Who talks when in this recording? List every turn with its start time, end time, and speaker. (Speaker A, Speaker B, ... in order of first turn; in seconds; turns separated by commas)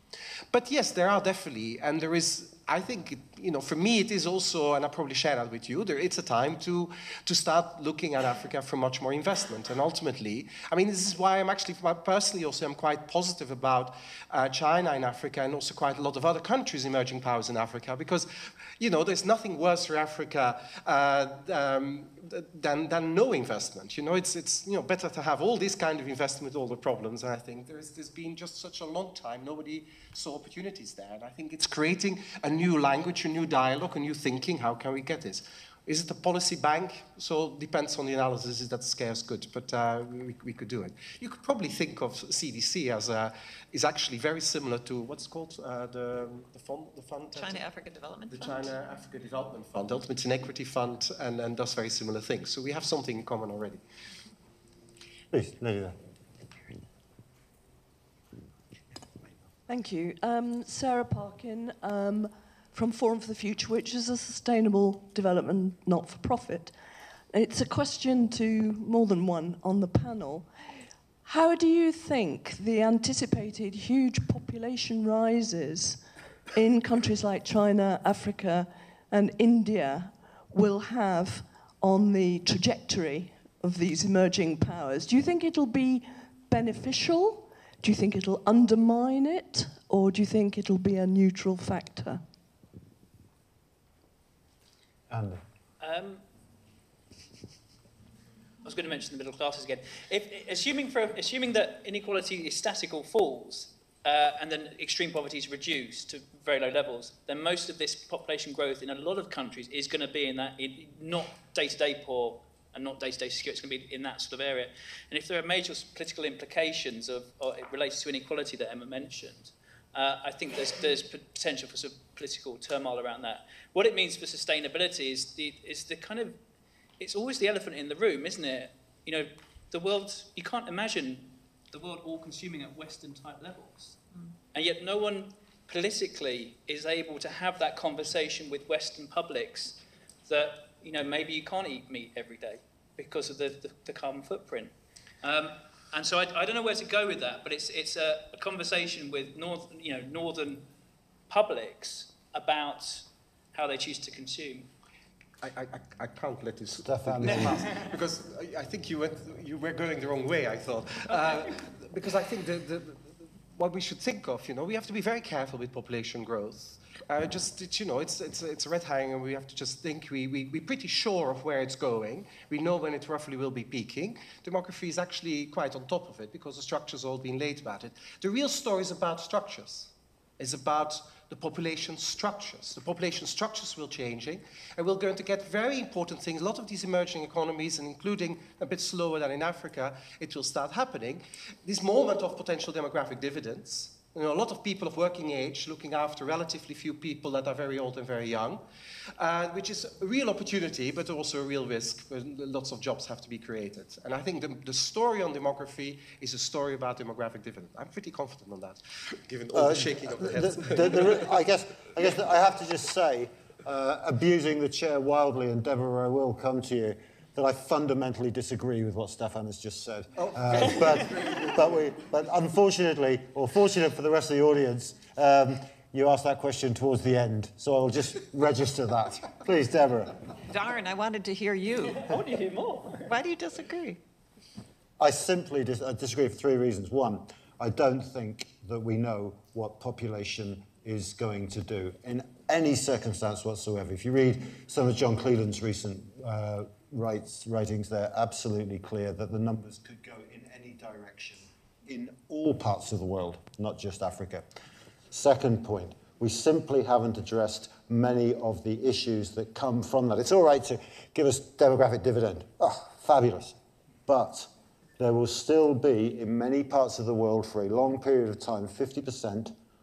Speaker A: 0.5-47.6, Speaker B: 47.3-48.7, Speaker A: 48.3-53.8, Speaker C: 55.3-56.0, Speaker D: 59.7-66.8, Speaker D: 67.3-92.2, Speaker C: 95.1-95.4, Speaker E: 95.8-96.2, Speaker E: 98.6-126.4, Speaker E: 127.0-134.0, Speaker E: 134.5-150.7, Speaker E: 151.3-154.7, Speaker A: 155.4-198.6, Speaker C: 156.8-157.6, Speaker A: 199.2-211.3, Speaker C: 209.5-230.2, Speaker A: 220.2-221.5, Speaker B: 230.5-232.1, Speaker E: 232.1-232.9, Speaker B: 233.0-234.0, Speaker C: 235.0-254.5, Speaker C: 255.1-263.6, Speaker C: 264.1-269.5